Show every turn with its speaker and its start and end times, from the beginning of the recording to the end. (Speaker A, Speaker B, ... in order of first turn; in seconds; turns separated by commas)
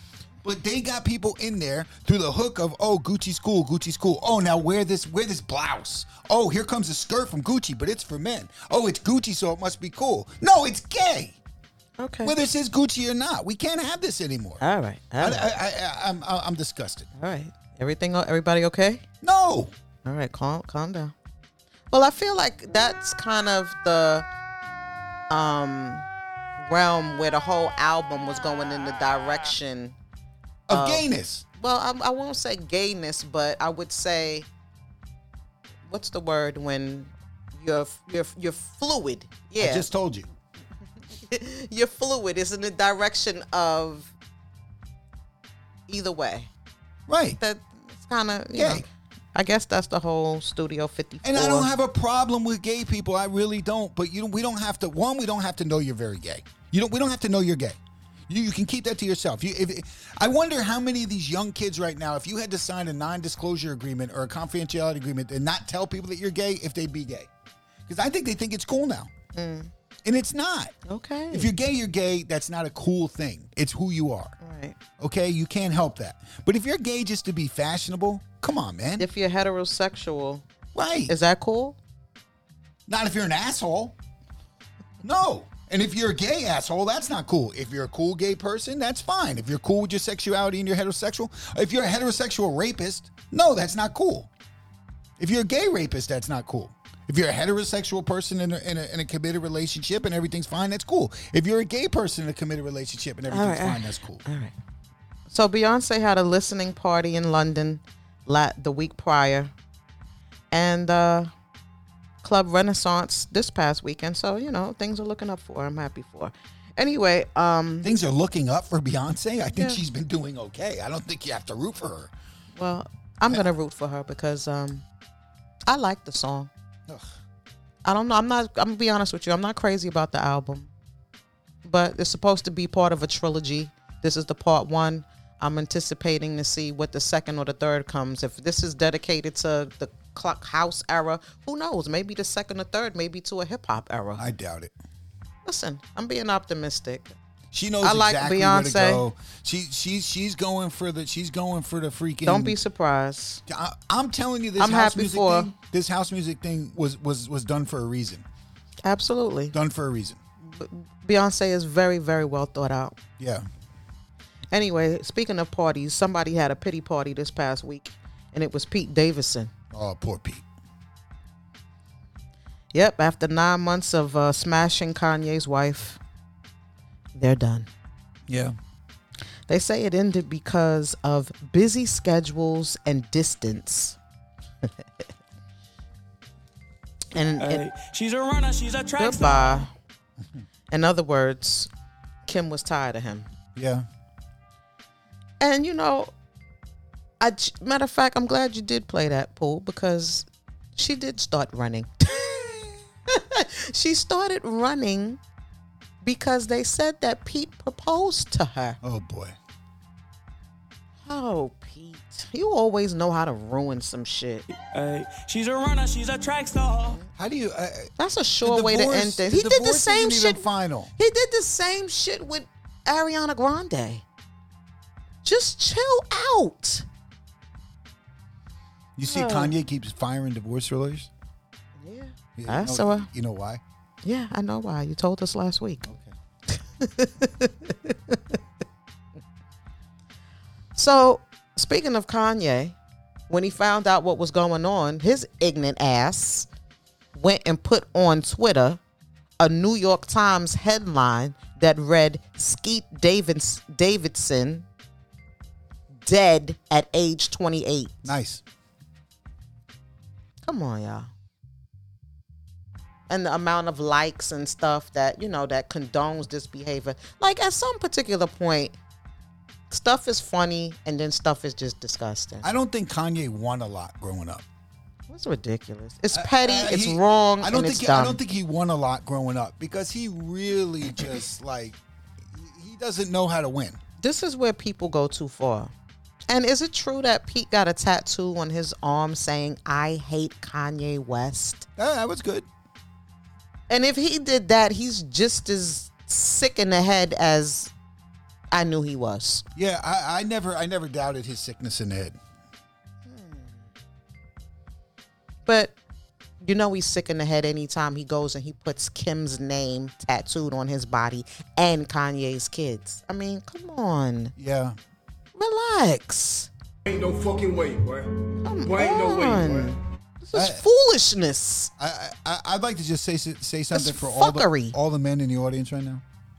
Speaker A: 0.4-11.4, Speaker B: 12.0-12.3, Speaker A: 12.2-14.6, Speaker B: 14.6-15.5, Speaker A: 15.2-17.1, Speaker B: 17.1-19.0, Speaker A: 19.2-19.7, Speaker B: 20.0-21.1, Speaker B: 21.9-24.2, Speaker B: 25.3-26.1, Speaker B: 26.6-29.9, Speaker A: 30.7-31.4, Speaker B: 30.7-31.1, Speaker B: 31.6-34.5, Speaker B: 35.9-39.9, Speaker A: 39.6-40.2, Speaker B: 41.1-44.1, Speaker B: 45.9-46.5, Speaker A: 47.1-47.4, Speaker B: 47.4-51.7, Speaker A: 48.5-48.8, Speaker A: 51.2-67.3, Speaker A: 67.9-69.1, Speaker B: 69.3-69.7, Speaker A: 70.0-70.7, Speaker B: 70.8-71.5, Speaker A: 71.3-74.3, Speaker B: 74.4-74.8, Speaker A: 75.0-79.1, Speaker B: 79.0-80.4, Speaker A: 80.7-81.1, Speaker B: 81.1-81.8, Speaker A: 82.9-84.0, Speaker A: 85.0-94.3, Speaker A: 95.2-104.2, Speaker B: 103.3-104.5, Speaker B: 105.3-109.5, Speaker B: 110.5-111.3, Speaker B: 112.2-117.9, Speaker A: 117.8-122.1, Speaker B: 122.5-124.8, Speaker B: 125.7-126.5, Speaker B: 127.8-130.7, Speaker B: 131.6-144.2, Speaker A: 144.2-144.7, Speaker B: 145.4-147.2, Speaker A: 147.5-152.6, Speaker B: 147.8-149.0, Speaker B: 152.2-153.4, Speaker A: 153.5-158.2, Speaker B: 154.6-155.5, Speaker B: 158.8-159.6, Speaker A: 159.5-160.2, Speaker B: 160.4-163.0, Speaker A: 163.2-163.4, Speaker B: 164.5-169.5, Speaker A: 169.7-170.4, Speaker B: 172.7-176.0, Speaker B: 177.1-177.7, Speaker A: 178.3-178.6, Speaker B: 179.5-184.0, Speaker B: 187.1-187.6, Speaker C: 187.4-189.7, Speaker B: 189.0-189.7, Speaker B: 190.7-191.7, Speaker B: 192.3-193.3, Speaker A: 193.6-193.8, Speaker B: 195.4-196.1, Speaker B: 197.2-205.2, Speaker B: 206.0-208.8, Speaker A: 208.8-209.3, Speaker B: 211.1-214.4, Speaker C: 214.5-217.0, Speaker A: 217.2-220.9, Speaker B: 218.0-220.4, Speaker B: 221.0-224.0, Speaker B: 225.2-226.8, Speaker A: 229.0-231.1, Speaker B: 229.0-229.5, Speaker B: 231.8-233.1, Speaker A: 232.4-233.6, Speaker B: 234.0-235.8, Speaker A: 235.8-236.1, Speaker B: 236.5-238.4, Speaker B: 240.7-242.8, Speaker B: 243.3-246.5, Speaker B: 247.1-248.8, Speaker B: 249.4-254.7, Speaker B: 256.0-258.1, Speaker A: 258.0-258.4, Speaker B: 260.4-261.1, Speaker B: 263.1-268.7, Speaker B: 269.7-272.5, Speaker A: 272.4-274.4, Speaker B: 275.1-278.2, Speaker A: 276.1-281.8, Speaker A: 282.3-283.8, Speaker B: 284.0-285.7, Speaker B: 286.3-291.7, Speaker A: 291.8-292.5, Speaker B: 293.7-297.7, Speaker B: 298.5-299.4, Speaker A: 299.5-302.2, Speaker B: 303.1-303.6, Speaker B: 305.4-305.7, Speaker B: 306.4-314.3, Speaker A: 314.4-314.8, Speaker B: 315.4-316.5, Speaker D: 316.9-319.8, Speaker B: 318.4-321.7, Speaker A: 320.3-320.6, Speaker A: 321.8-326.0, Speaker B: 323.7-324.8